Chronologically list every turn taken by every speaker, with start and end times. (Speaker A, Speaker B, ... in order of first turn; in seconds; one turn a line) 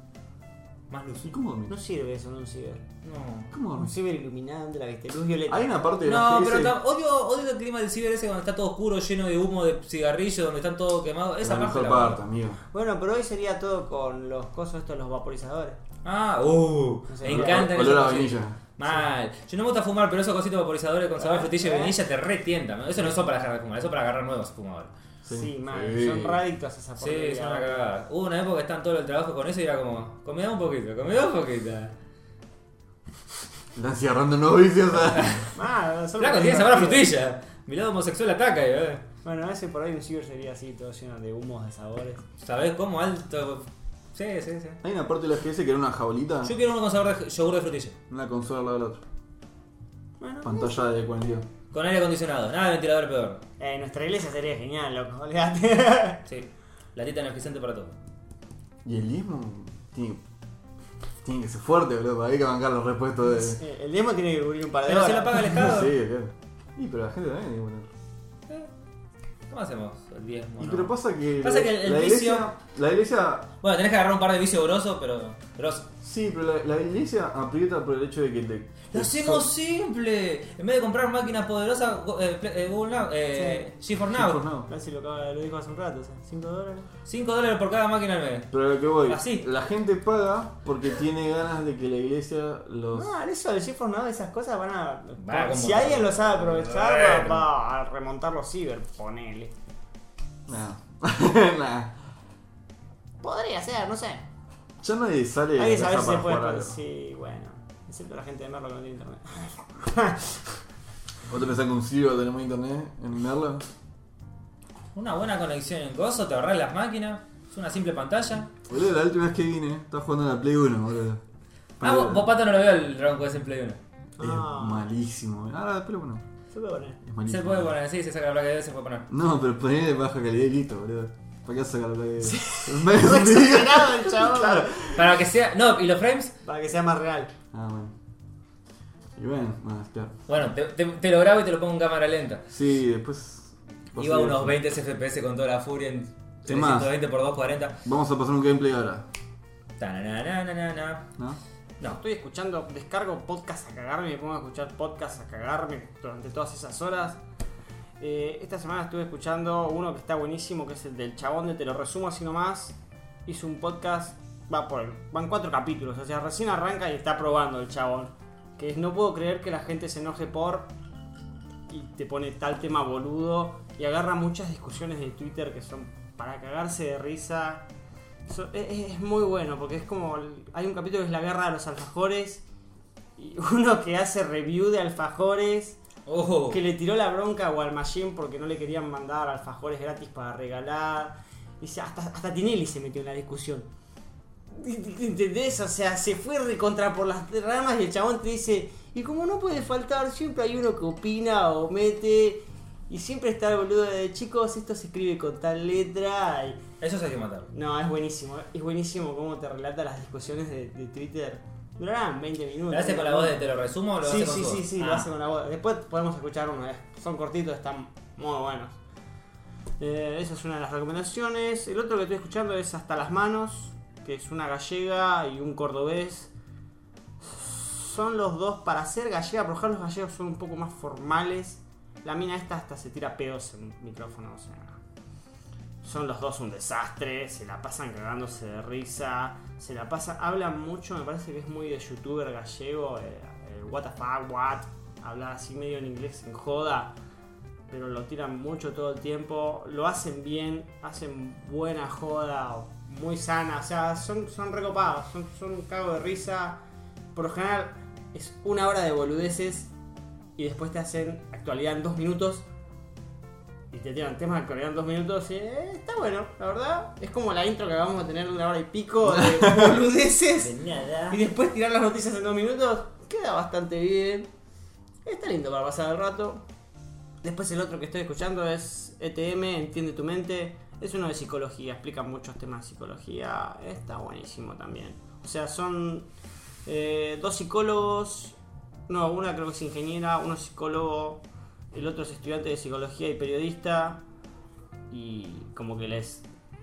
Speaker A: 0.9-1.3
Speaker B: 1.2-1.7
Speaker C: 1.7-2.9
Speaker A: 3.0-3.5
Speaker B: 3.5-3.9
Speaker C: 3.7-5.8
Speaker B: 5.5-6.8
Speaker A: 6.0-12.2
Speaker B: 11.4-12.6
Speaker C: 12.7-15.8
Speaker A: 16.0-24.9
Speaker C: 17.1-17.9
Speaker B: 17.2-18.6
Speaker C: 21.2-21.9
Speaker B: 25.2-26.4
Speaker C: 25.3-27.9
Speaker A: 27.0-31.9
Speaker B: 33.7-35.5
Speaker A: 35.1-35.5
Speaker C: 35.5-37.0
Speaker A: 36.2-39.0
Speaker C: 39.2-42.2
Speaker A: 42.4-44.8
Speaker B: 44.8-46.5
Speaker A: 46.4-48.0
Speaker B: 48.1-49.0
Speaker C: 50.2-50.9
Speaker B: 50.4-51.5
Speaker A: 51.7-53.4
Speaker C: 53.6-56.2
Speaker A: 56.3-58.0
Speaker B: 58.8-60.2
Speaker B: 61.2-63.6
Speaker C: 63.3-65.6
Speaker A: 64.8-65.9
Speaker B: 65.5-67.9
Speaker A: 69.5-72.5
Speaker B: 70.6-73.5
Speaker A: 73.6-75.9
Speaker B: 76.0-79.5
Speaker A: 78.9-84.4
Speaker C: 83.3-83.7
Speaker B: 84.1-84.7
Speaker C: 84.7-86.9
Speaker A: 87.0-88.5
Speaker B: 88.5-93.1
Speaker A: 89.1-89.5
Speaker C: 92.9-99.5
Speaker A: 95.2-97.5
Speaker B: 100.5-102.0
Speaker C: 103.2-104.2
Speaker B: 104.8-106.8
Speaker C: 105.5-110.4
Speaker B: 111.3-113.6
Speaker A: 114.9-118.5
Speaker B: 118.7-121.2
Speaker B: 121.8-122.3
Speaker A: 121.8-123.8
Speaker C: 124.2-124.9
Speaker B: 124.2-126.2
Speaker C: 126.5-127.0
Speaker B: 127.0-127.7
Speaker A: 127.2-129.1
Speaker B: 129.1-135.0
Speaker C: 132.2-134.9
Speaker A: 134.9-136.3
Speaker C: 136.4-137.3
Speaker B: 137.5-137.9
Speaker B: 139.2-140.2
Speaker A: 140.3-142.4
Speaker B: 142.5-144.6
Speaker A: 143.9-147.8
Speaker B: 146.5-146.9
Speaker B: 147.8-149.1
Speaker A: 149.8-151.1
Speaker C: 151.8-157.2
Speaker C: 158.0-170.7
Speaker C: 171.7-177.7
Speaker C: 178.3-182.4
Speaker C: 183.2-185.8
Speaker A: 186.1-186.6
Speaker C: 186.5-193.7
Speaker C: 194.5-206.6
Speaker A: 206.8-207.5
Speaker C: 207.5-213.4
Speaker A: 212.7-215.1
Speaker C: 214.0-218.8
Speaker C: 219.8-226.3
Speaker C: 227.2-234.8
Speaker C: 235.8-246.9
Speaker C: 247.7-256.6
Speaker C: 257.1-259.7
Speaker C: 260.4-262.4
Speaker C: 263.7-270.5
Speaker B: 269.1-269.7
Speaker A: 270.4-271.2
Speaker C: 271.1-274.3
Speaker C: 275.0-276.4
Speaker C: 277.2-286.1
Speaker C: 286.6-288.4
Speaker C: 288.9-294.0
Speaker C: 294.9-296.2